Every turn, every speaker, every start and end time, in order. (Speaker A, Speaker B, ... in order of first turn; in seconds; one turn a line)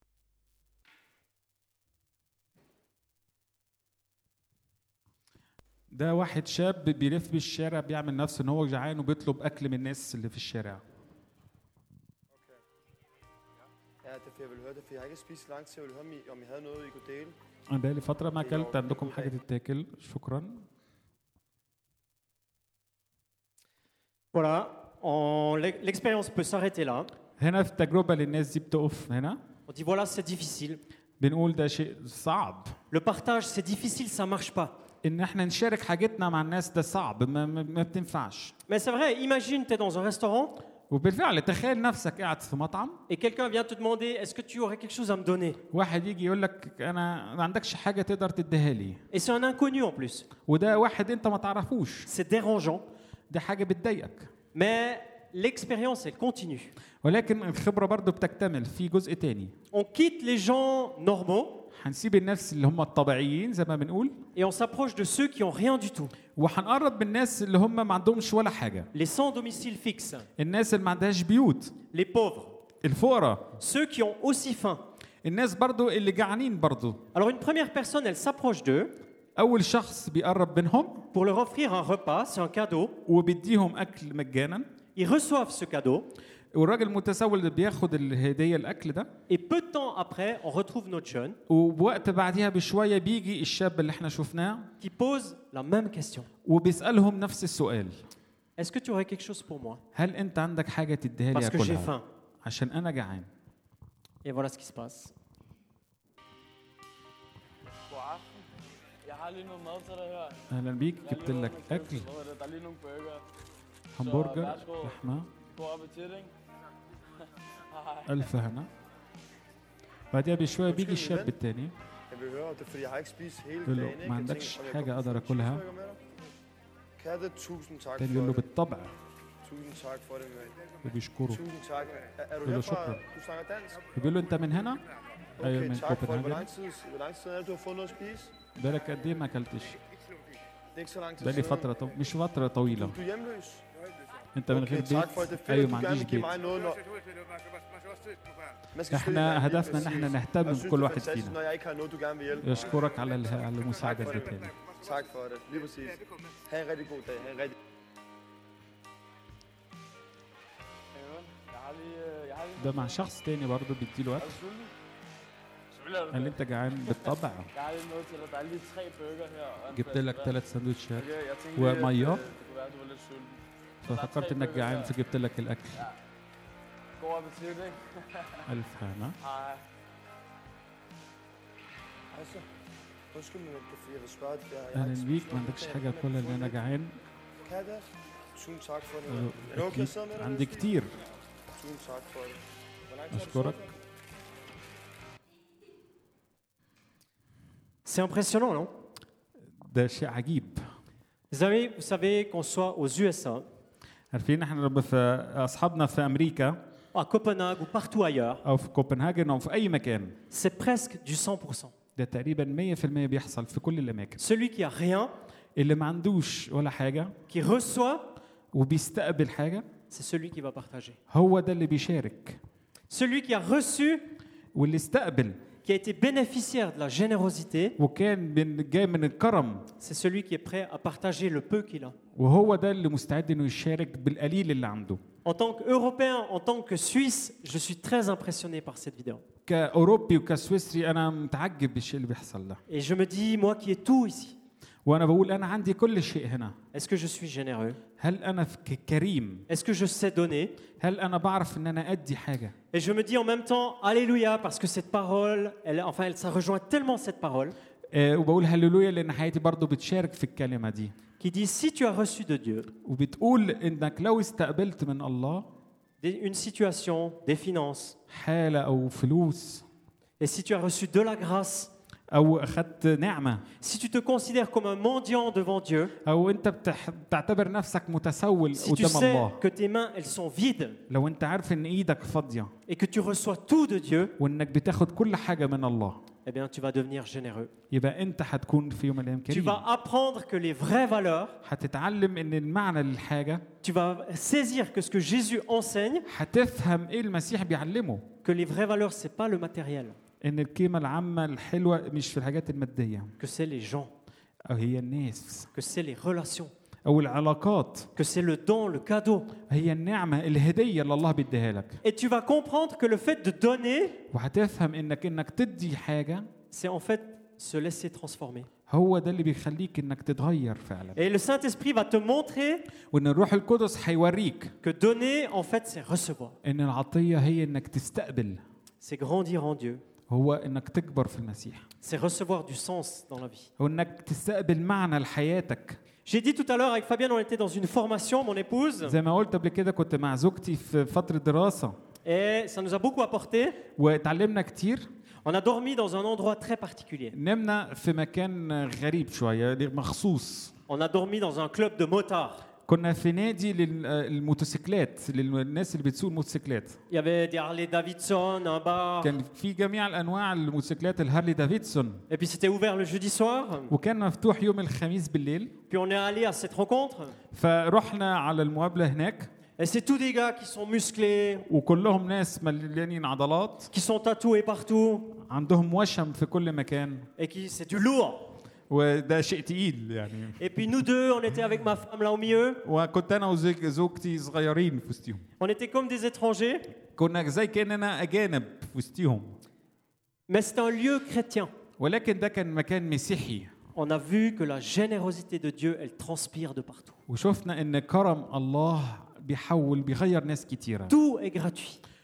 Speaker A: 5.9-10.8
Speaker B: 12.3-12.6
Speaker B: 14.0-17.4
Speaker A: 17.7-20.6
Speaker B: 18.4-19.3
Speaker C: 24.3-27.1
Speaker A: 27.4-29.4
Speaker C: 29.7-30.8
Speaker A: 31.2-32.8
Speaker C: 32.9-34.7
Speaker A: 35.0-38.5
Speaker C: 38.7-40.6
Speaker A: 40.9-43.0
Speaker C: 43.1-45.6
Speaker A: 45.7-49.0
Speaker C: 49.1-50.3
Speaker A: 50.5-52.1
Speaker C: 52.1-52.8
Speaker A: 53.3-54.3
Speaker C: 54.5-56.7
Speaker A: 57.0-59.5
Speaker C: 59.7-61.7
Speaker A: 61.7-64.2
Speaker C: 64.3-66.1
Speaker A: 66.3-68.9
Speaker C: 68.9-70.3
Speaker A: 70.4-71.8
Speaker C: 71.9-72.6
Speaker A: 72.8-73.5
Speaker C: 73.6-74.8
Speaker A: 75.2-77.0
Speaker C: 77.1-79.0
Speaker A: 79.3-81.1
Speaker C: 81.1-83.0
Speaker A: 83.0-84.7
Speaker C: 85.0-86.1
Speaker A: 86.5-89.1
Speaker C: 89.3-91.4
Speaker A: 91.5-94.7
Speaker C: 94.8-96.3
Speaker A: 96.4-98.0
Speaker C: 98.6-99.8
Speaker A: 99.9-103.3
Speaker C: 101.3-102.0
Speaker C: 104.2-105.1
Speaker D: 107.9-108.5
Speaker D: 109.0-110.4
Speaker A: 110.5-112.0
Speaker D: 111.0-113.2
Speaker A: 113.9-115.3
Speaker D: 114.0-115.0
Speaker D: 115.5-116.3
Speaker D: 117.7-118.2
Speaker A: 118.0-118.7
Speaker A: 120.1-121.7
Speaker B: 120.7-121.3
Speaker B: 122.1-126.0
Speaker A: 123.6-125.6
Speaker B: 127.0-128.4
Speaker A: 128.0-128.9
Speaker B: 129.4-130.7
Speaker A: 130.8-131.4
Speaker B: 131.3-133.9
Speaker A: 132.4-133.0
Speaker A: 133.9-134.8
Speaker B: 135.4-138.3
Speaker A: 135.4-136.5
Speaker A: 138.6-139.8
Speaker B: 140.7-141.7
Speaker A: 141.2-143.0
Speaker B: 142.7-143.7
Speaker A: 144.3-146.3
Speaker B: 144.5-146.9
Speaker B: 148.7-153.0
Speaker A: 148.9-151.3
Speaker A: 152.4-154.5
Speaker B: 153.8-157.5
Speaker D: 160.9-163.0
Speaker A: 162.6-164.4
Speaker D: 164.2-164.7
Speaker D: 165.7-170.3
Speaker A: 166.1-167.5
Speaker A: 169.7-172.2
Speaker D: 170.9-174.9
Speaker A: 173.8-175.8
Speaker D: 177.0-178.5
Speaker A: 178.4-179.2
Speaker D: 179.2-179.6
Speaker B: 182.1-182.5
Speaker B: 183.1-186.6
Speaker A: 184.7-187.0
Speaker B: 187.4-190.7
Speaker A: 189.1-190.9
Speaker B: 191.5-193.7
Speaker A: 193.1-193.6
Speaker C: 197.8-198.7
Speaker A: 199.6-200.6
Speaker C: 201.3-203.5
Speaker A: 204.1-206.6
Speaker C: 206.9-208.4
Speaker A: 208.4-210.2
Speaker C: 210.3-211.7
Speaker A: 211.9-214.2
Speaker C: 214.2-215.1
Speaker A: 215.6-217.2
Speaker C: 217.3-218.1
Speaker A: 218.5-219.7
Speaker C: 219.9-221.0
Speaker A: 221.1-222.4
Speaker C: 222.9-224.1
Speaker A: 224.5-225.4
Speaker C: 225.6-227.8
Speaker A: 227.8-229.7
Speaker C: 229.8-231.9
Speaker A: 232.1-235.0
Speaker C: 235.2-239.2
Speaker A: 239.4-242.6
Speaker C: 242.7-244.3
Speaker A: 244.8-246.6
Speaker C: 246.7-247.8
Speaker A: 248.0-249.4
Speaker C: 249.5-250.6
Speaker A: 250.8-252.5
Speaker C: 252.7-257.5
Speaker A: 257.9-260.9
Speaker C: 261.2-262.7
Speaker A: 262.8-265.5
Speaker C: 266.0-268.0
Speaker A: 268.1-269.6
Speaker C: 270.2-271.7
Speaker A: 272.1-273.4
Speaker C: 273.6-275.9
Speaker A: 276.0-279.4
Speaker C: 278.5-280.8
Speaker A: 280.9-282.5
Speaker C: 282.7-284.1
Speaker A: 284.2-286.0
Speaker C: 286.2-287.5
Speaker A: 287.7-289.6
Speaker C: 289.3-291.4
Speaker A: 291.4-293.4
Speaker C: 293.6-296.1
Speaker A: 296.1-298.1
Speaker C: 298.2-300.0
Speaker A: 300.2-303.1
Speaker C: 303.2-303.9
Speaker A: 304.4-305.5
Speaker C: 305.5-306.5
Speaker A: 306.8-307.9
Speaker C: 307.9-309.4
Speaker A: 309.5-311.8
Speaker C: 311.8-314.0
Speaker A: 314.1-316.3
Speaker C: 316.5-318.5
Speaker A: 318.7-321.0
Speaker C: 320.9-322.7
Speaker A: 322.9-324.5
Speaker C: 324.6-326.4
Speaker A: 326.4-328.4
Speaker C: 328.8-329.8
Speaker A: 330.1-331.6
Speaker C: 331.8-333.5
Speaker A: 333.6-335.8
Speaker C: 336.1-338.9
Speaker A: 338.8-341.8
Speaker C: 342.0-343.6
Speaker A: 343.8-344.9
Speaker C: 345.2-347.1
Speaker A: 347.1-350.5
Speaker C: 350.7-352.4
Speaker A: 352.6-356.8
Speaker C: 356.9-359.1
Speaker A: 359.0-362.0
Speaker C: 362.1-363.7
Speaker A: 363.7-365.6
Speaker C: 365.7-367.2
Speaker A: 367.3-369.3
Speaker C: 369.6-371.5
Speaker A: 371.5-373.7
Speaker C: 373.7-375.2
Speaker A: 375.2-377.1
Speaker C: 377.2-378.3
Speaker A: 378.7-380.4
Speaker C: 380.4-382.6
Speaker A: 382.6-385.2
Speaker C: 385.4-386.7
Speaker A: 386.9-389.4
Speaker C: 390.3-391.5
Speaker A: 391.8-393.5
Speaker C: 393.7-397.0
Speaker A: 397.1-400.9
Speaker C: 400.9-401.8